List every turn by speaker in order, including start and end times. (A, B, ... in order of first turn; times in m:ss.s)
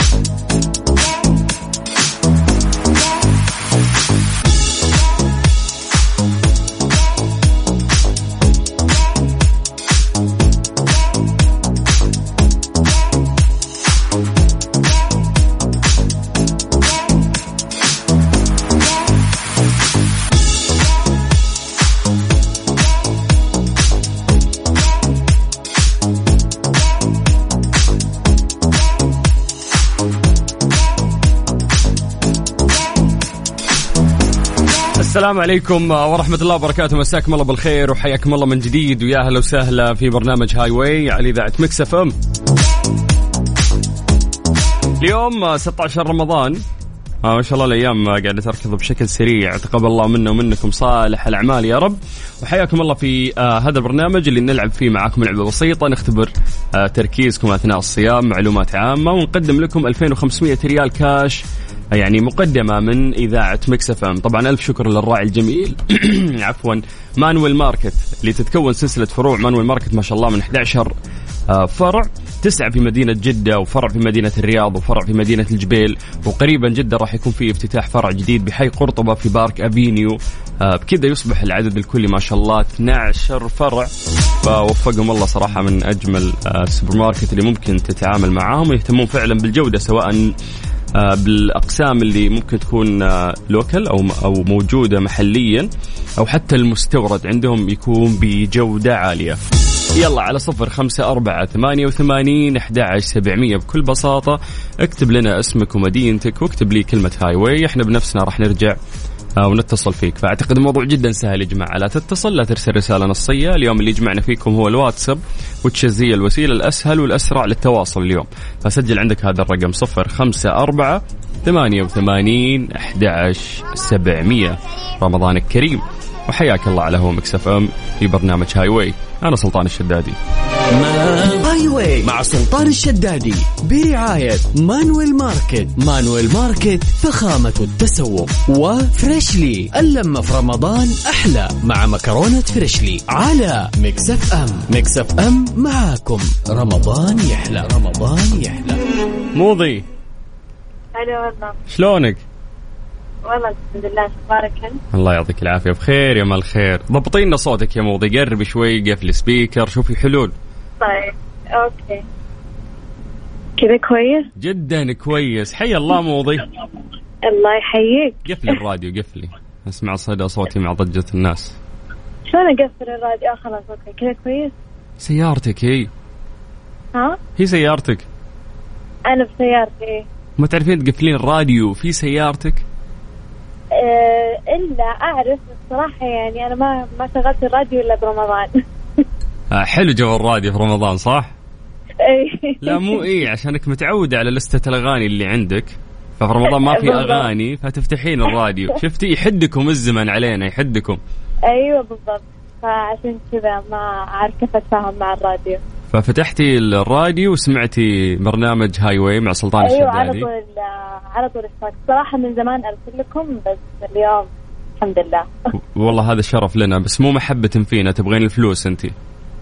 0:35.0-0:42.1 A
0:45.0-0:46.6 A
0:47.2-1:10.9 A
1:11.5-1:23.9 A
1:24.4-1:30.3 A
1:30.9-1:39.4 A
1:40.0-1:48.8 A
1:49.4-2:10.2 A
2:10.7-2:28.8 B
2:29.3-2:29.8 A
2:30.9-2:31.6 C
2:31.7-2:32.2 A
2:33.2-2:34.8 C
2:34.9-2:40.3 A
2:40.8-2:42.0 C
2:43.6-2:44.3 C
2:44.4-2:46.4 A
2:47.2-2:48.6 C
2:48.2-2:51.6 A
2:52.3-2:54.5 C
2:55.0-2:55.9 A
2:56.9-2:57.2 C
2:57.4-2:58.0 A
2:59.1-3:00.1 C
3:00.4-3:02.6 A
3:03.8-3:08.5 C
3:09.5-3:11.3 A
3:12.0-3:13.1 C
3:12.6-3:21.0 A
3:16.4-3:17.3 C
3:21.5-3:25.6 C
3:25.9-3:30.3 A
3:29.6-3:35.3 C
3:35.7-3:38.9 A